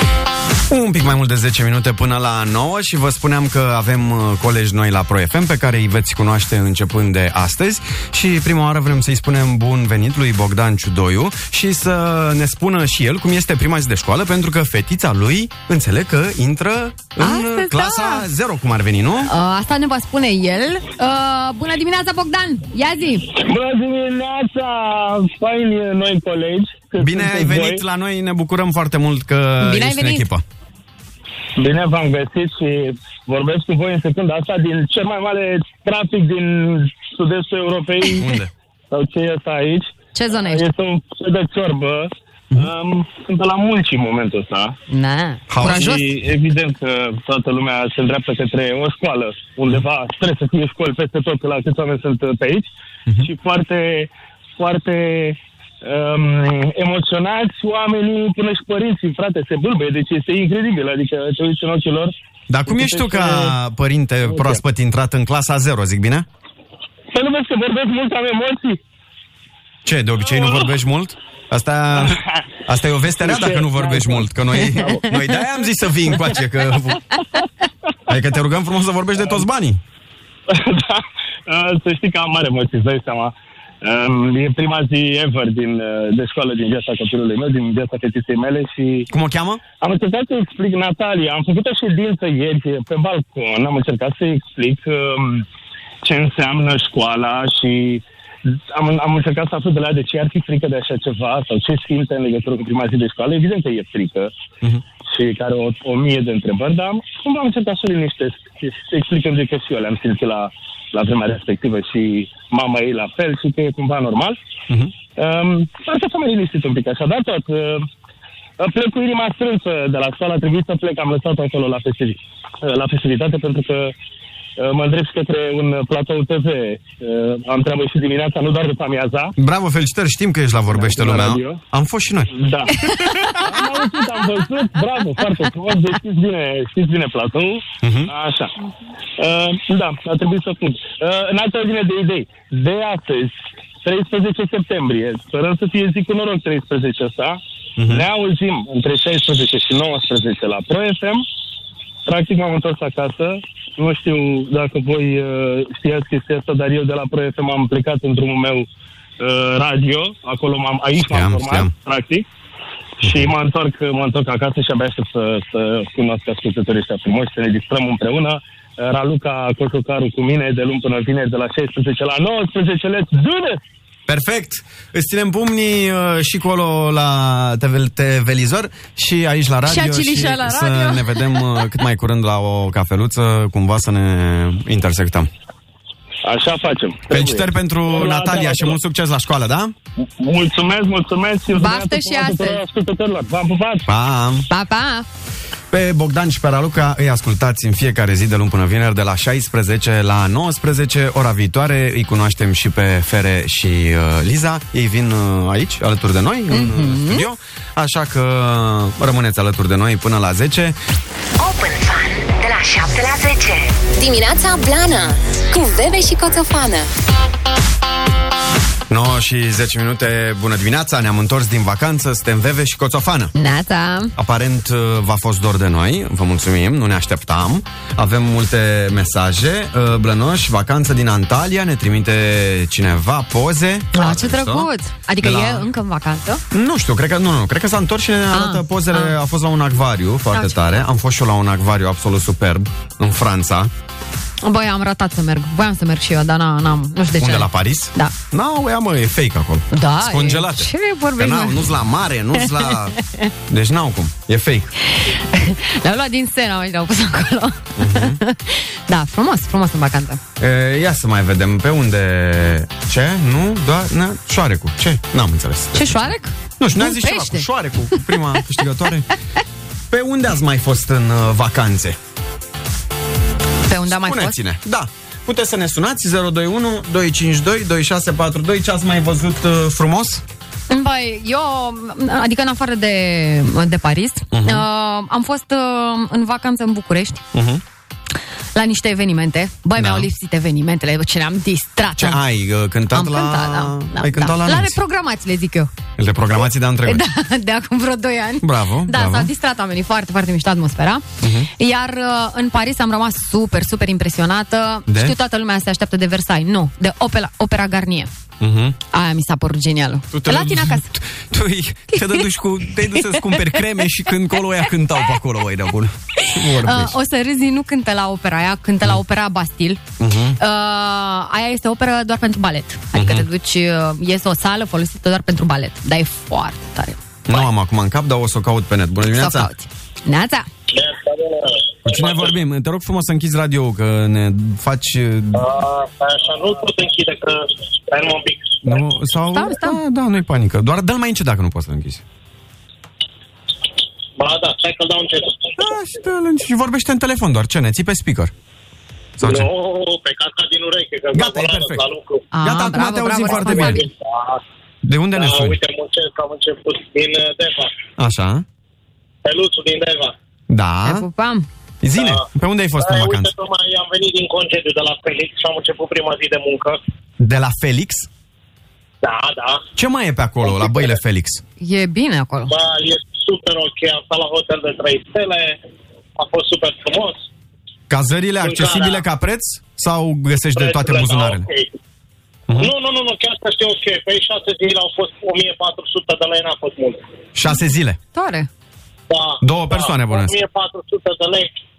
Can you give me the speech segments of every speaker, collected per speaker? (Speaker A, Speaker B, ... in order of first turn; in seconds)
Speaker A: 0.7-19.3, 27.0-30.4, 38.2-38.5, 45.5-46.0, 62.5-66.3, 69.8-77.1, 78.1-79.8, 89.1-89.6, 129.4-132.3, 137.8-138.1, 147.8-148.1, 161.1-161.7, 163.0-163.3, 174.1-185.3, 187.1-189.7, 193.9-194.5, 195.7-210.8, 218.9-223.3, 224.2-235.7, 236.5-243.7, 247.2-253.0, 253.5-254.7, 257.8-258.2, 260.4-266.0, 266.6-269.1, 269.9-272.0, 273.8-280.2, 284.3-284.6, 287.3-287.6, 289.8-290.1, 292.0-294.8, 296.0-297.1, 298.4-299.3, 301.2-301.5, 304.9-305.2, 308.4-308.8, 310.1-316.9, 320.0-320.4, 322.9-323.3, 327.3-329.5, 331.8-335.5, 338.6-342.0, 345.6-348.3, 349.2-349.5, 351.1-351.8, 352.4-353.9, 354.8-355.6, 358.0-358.4, 360.5-361.1, 361.8-363.3, 367.2-368.1, 369.8-371.4, 377.9-381.5, 387.3-388.0, 389.4-390.4
Speaker B: 17.2-18.3, 19.2-23.3, 29.6-30.3, 40.1-40.7, 44.9-46.1, 132.8-133.4, 179.7-181.4, 191.5-192.6, 194.5-195.1, 206.5-207.3, 223.3-224.1, 233.9-236.4, 238.3-239.1, 244.4-248.1, 249.7-251.7, 252.4-253.3, 255.0-260.2, 265.8-268.0, 273.7-274.4, 280.7-287.2, 288.6-292.2, 292.9-295.7, 296.9-301.0, 301.6-308.1, 308.9-310.9, 311.9-312.3, 312.8-313.6, 316.2-319.8, 320.4-327.0, 329.1-330.5, 339.3-339.8, 352.3-353.8, 360.9-361.5, 371.6-372.5, 388.1-388.5
Speaker C: 23.3-27.8, 31.6-38.3, 38.9-44.8, 45.6-52.7, 53.2-62.1, 62.7-63.6, 64.2-64.6, 67.1-68.8, 73.2-75.3, 80.5-89.1, 89.8-95.5, 96.0-104.3, 105.0-114.4, 115.2-117.8, 118.6-123.9, 124.6-129.3, 130.7-131.6, 132.3-132.8, 133.4-138.5, 139.2-151.2, 152.1-158.7, 159.2-162.3, 163.0-173.6, 186.2-188.8, 190.0-193.9
Speaker D: 211.4-216.9
Speaker E: 330.7-332.3, 335.3-338.8, 344.2-345.6, 349.2-352.2, 353.6-354.4, 355.1-357.7, 359.2-360.1, 362.0-362.2, 362.8-366.8, 369.0-369.6, 370.4-370.9, 372.5-375.6, 376.2-377.2, 378.4-379.0, 380.6-381.8, 382.6-387.0, 389.1-391.5